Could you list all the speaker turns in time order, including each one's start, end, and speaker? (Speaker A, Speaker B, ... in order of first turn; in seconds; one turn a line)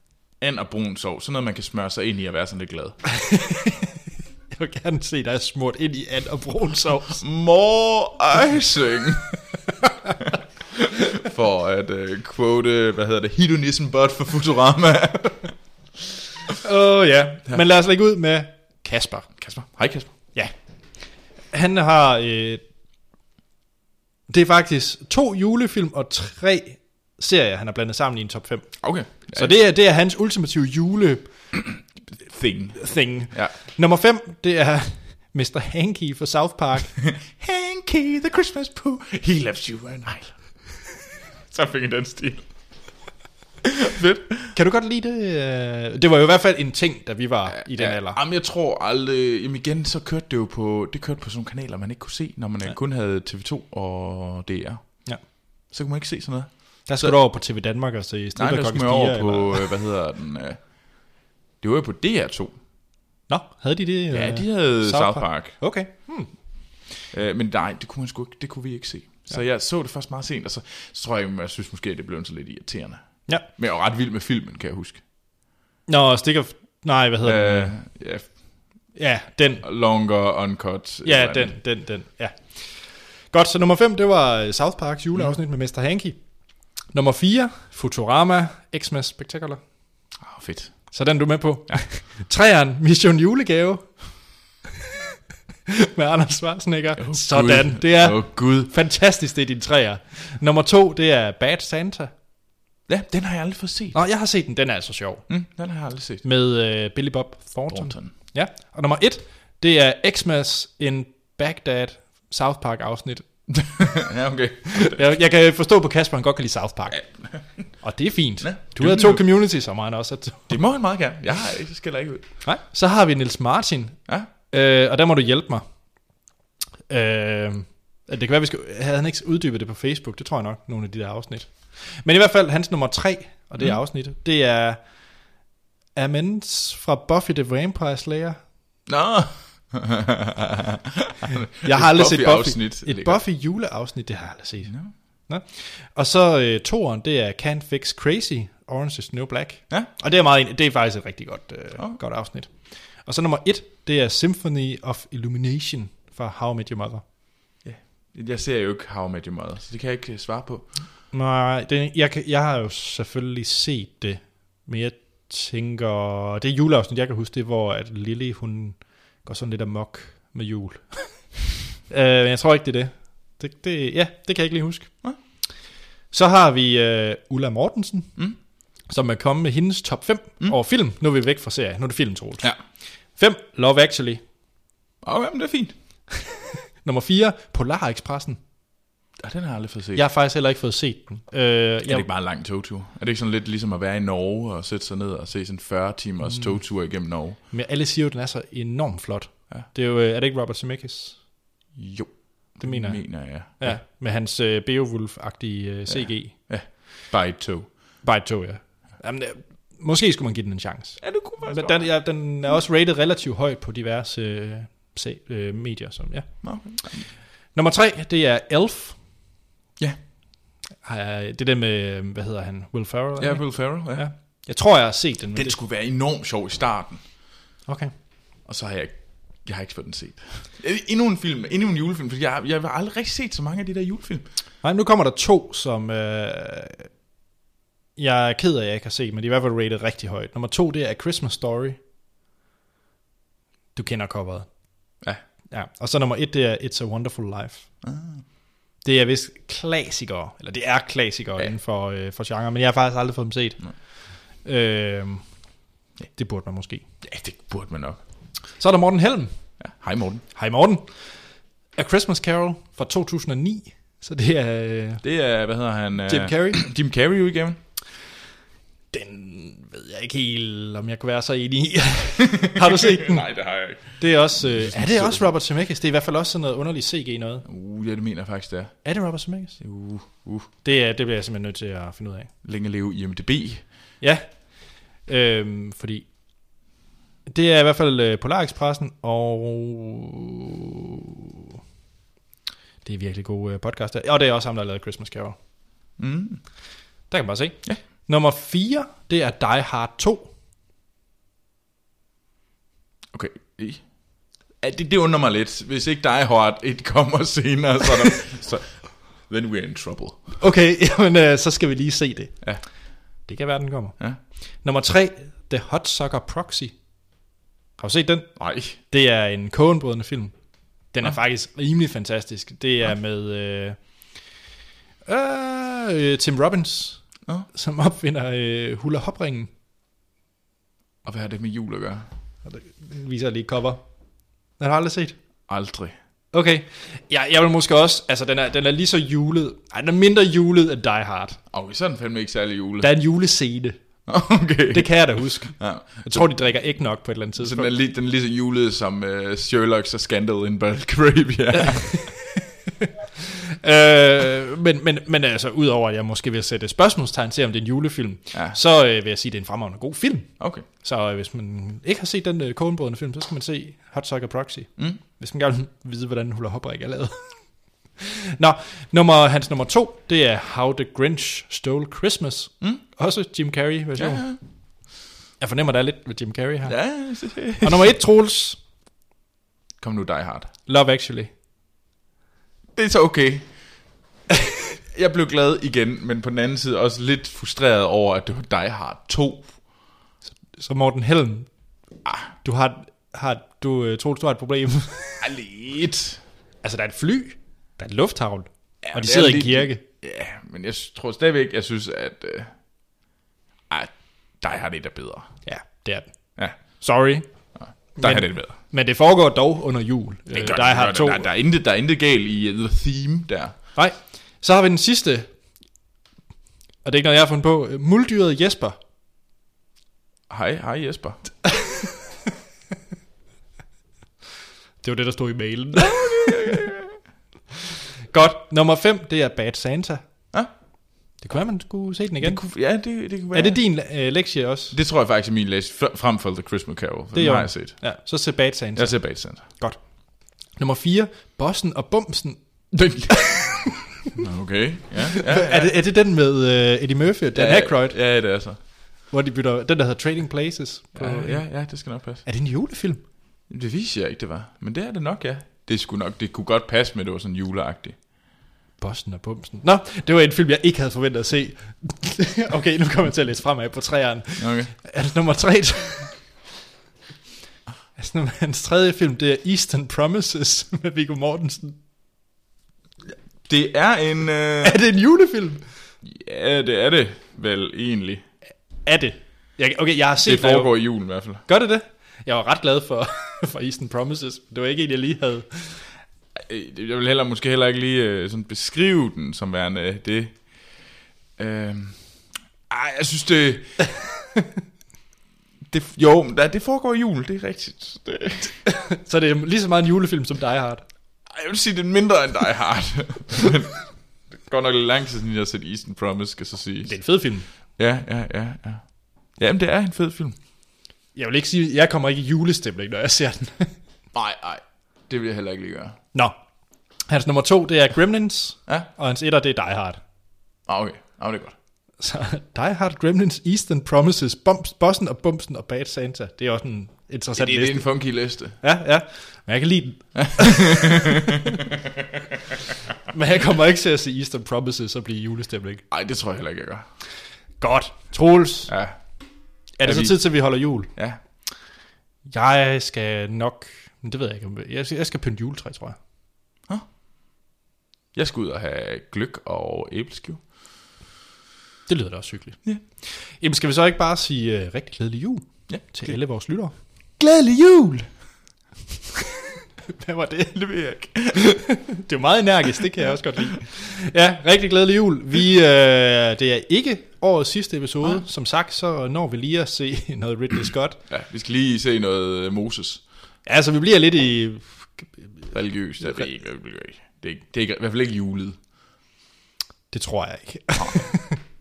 Speaker A: 0.4-3.0
Speaker B: 3.1-4.0
Speaker B: 4.5-7.2
Speaker A: 7.2-9.4
Speaker A: 10.2-15.5
Speaker B: 16.6-19.3
Speaker A: 19.4-20.1
Speaker B: 21.5-22.6
Speaker B: 24.3-31.3
Speaker A: 28.8-29.6
Speaker A: 31.5-33.5
Speaker B: 32.8-36.9
Speaker A: 37.0-40.4
Speaker A: 41.5-42.4
Speaker A: 43.6-44.5
Speaker B: 44.5-48.2
Speaker A: 47.5-57.1
Speaker B: 56.9-59.7
Speaker A: 58.4-60.7
Speaker A: 61.6-62.6
Speaker B: 63.3-66.3
Speaker A: 64.1-65.5
Speaker A: 67.1-75.0
Speaker B: 75.9-77.7
Speaker A: 77.2-78.3
Speaker B: 78.9-79.6
Speaker A: 79.6-81.5
Speaker B: 81.0-86.2
Speaker B: 86.9-89.6
Speaker A: 90.2-90.9
Speaker B: 90.9-94.0
Speaker B: 95.7-102.1
Speaker A: 97.0-98.7
Speaker A: 102.9-104.0
Speaker B: 103.9-105.3
Speaker A: 105.3-106.2
Speaker B: 106.2-113.3
Speaker A: 107.7-108.1
Speaker A: 113.5-115.0
Speaker B: 114.7-117.1
Speaker A: 116.9-117.7
Speaker B: 117.8-120.5
Speaker A: 118.4-119.3
Speaker A: 120.5-122.3
Speaker B: 122.4-124.0
Speaker B: 124.5-125.6
Speaker B: 126.9-134.8
Speaker B: 135.9-138.4
Speaker A: 138.8-143.2
Speaker B: 141.6-144.8
Speaker A: 144.7-144.9
Speaker B: 145.3-157.0
Speaker A: 157.6-160.8
Speaker B: 161.1-171.3
Speaker B: 171.9-174.9
Speaker B: 176.1-178.1
Speaker B: 178.9-182.5
Speaker B: 183.2-184.2
Speaker A: 185.0-185.7
Speaker B: 186.8-188.4
Speaker A: 189.2-190.0
Speaker B: 189.9-192.1
Speaker A: 191.8-197.4
Speaker B: 196.3-196.6
Speaker B: 197.5-201.2
Speaker A: 201.7-203.8
Speaker B: 202.6-206.3
Speaker A: 205.9-207.7
Speaker B: 208.0-216.3
Speaker A: 211.0-211.9
Speaker A: 216.4-217.0
Speaker B: 217.5-219.0
Speaker B: 220.8-225.6
Speaker A: 223.2-224.1
Speaker A: 225.3-227.0
Speaker B: 227.7-227.9
Speaker A: 228.4-234.2
Speaker B: 234.6-236.9
Speaker B: 238.0-241.8
Speaker B: 243.8-244.5
Speaker B: 245.5-247.7
Speaker A: 247.8-248.2
Speaker B: 248.8-253.6
Speaker B: 254.4-255.2
Speaker B: 256.1-256.8
Speaker A: 257.0-258.0
Speaker B: 258.6-259.3
Speaker A: 259.6-260.2
Speaker B: 260.3-261.0
Speaker B: 261.7-265.0
Speaker A: 265.0-267.6
Speaker B: 266.1-266.6
Speaker B: 268.9-273.3
Speaker A: 272.6-275.3
Speaker B: 273.8-277.4
Speaker A: 277.4-278.8
Speaker B: 278.8-279.6
Speaker A: 279.6-280.5
Speaker B: 280.6-282.3
Speaker A: 282.4-283.6
Speaker B: 284.0-286.1
Speaker B: 287.3-290.6
Speaker B: 292.8-295.4
Speaker A: 296.0-296.4
Speaker B: 297.1-300.3
Speaker A: 303.1-303.9
Speaker A: 304.6-310.3
Speaker B: 310.4-312.4
Speaker B: 313.2-314.0
Speaker B: 314.6-316.7
Speaker B: 317.8-320.3
Speaker A: 318.4-318.8
Speaker B: 320.9-323.8
Speaker B: 325.1-329.5
Speaker A: 331.0-332.1
Speaker B: 332.4-333.8
Speaker B: 334.6-335.1
Speaker A: 335.5-335.9
Speaker B: 336.3-341.4
Speaker A: 341.5-342.9
Speaker B: 342.8-343.8
Speaker A: 344.1-346.4
Speaker B: 344.7-347.7
Speaker A: 347.4-352.1
Speaker B: 351.6-367.4
Speaker A: 360.4-360.6
Speaker B: 368.0-374.3
Speaker A: 373.9-374.4
Speaker B: 375.4-376.8
Speaker A: 376.6-377.9
Speaker B: 377.6-378.6
Speaker A: 379.8-380.5
Speaker B: 380.7-381.3
Speaker A: 382.7-383.5
Speaker A: 384.9-389.5
Speaker B: 390.5-391.5
Speaker A: 392.0-392.3
Speaker B: 392.4-395.2
Speaker A: 395.2-396.2
Speaker B: 396.6-399.8
Speaker A: 398.8-402.5
Speaker A: 403.7-405.3
Speaker B: 405.4-406.1
Speaker B: 406.6-407.2
Speaker A: 407.6-408.6
Speaker B: 408.0-411.2
Speaker A: 410.3-413.6
Speaker B: 413.7-415.3
Speaker B: 416.8-418.8
Speaker A: 420.3-421.3
Speaker B: 424.8-426.6
Speaker A: 425.7-427.0
Speaker B: 428.1-430.1
Speaker B: 431.2-432.4
Speaker A: 432.2-433.6
Speaker B: 433.3-434.7
Speaker A: 434.7-437.9
Speaker B: 437.1-439.8
Speaker A: 438.7-439.4
Speaker B: 440.5-442.4
Speaker A: 442.7-445.7
Speaker B: 443.1-443.6
Speaker B: 445.1-448.0
Speaker A: 447.3-448.6
Speaker B: 449.1-453.0
Speaker A: 450.9-452.2
Speaker A: 453.5-458.0
Speaker B: 458.8-466.1
Speaker A: 464.4-464.7
Speaker B: 468.0-471.8
Speaker A: 473.4-474.8
Speaker B: 474.6-475.6
Speaker A: 476.0-478.2
Speaker B: 478.8-480.8
Speaker A: 480.2-481.4
Speaker B: 481.4-485.9
Speaker A: 486.4-490.8
Speaker A: 491.4-492.1
Speaker A: 492.7-493.8
Speaker A: 495.7-498.5
Speaker B: 498.6-500.8
Speaker A: 501.3-507.0
Speaker B: 506.8-507.5
Speaker A: 507.8-510.4
Speaker B: 511.1-513.7
Speaker A: 514.1-516.0
Speaker B: 517.1-520.0
Speaker A: 520.7-521.5
Speaker B: 522.0-528.0
Speaker A: 527.4-528.6
Speaker B: 528.6-531.4
Speaker A: 530.1-532.2
Speaker B: 533.1-535.8
Speaker A: 535.9-536.9
Speaker B: 537.6-538.7
Speaker A: 538.7-539.0
Speaker B: 539.8-540.9
Speaker A: 539.8-540.2
Speaker B: 542.3-546.0
Speaker A: 548.1-550.4
Speaker B: 551.9-556.7
Speaker A: 555.7-556.1
Speaker A: 557.2-558.1
Speaker B: 560.0-560.6
Speaker A: 560.5-561.5
Speaker B: 561.3-571.0
Speaker A: 563.0-563.6
Speaker A: 571.1-573.0
Speaker B: 573.5-575.3
Speaker A: 575.5-578.6
Speaker B: 579.9-581.4
Speaker A: 580.7-581.0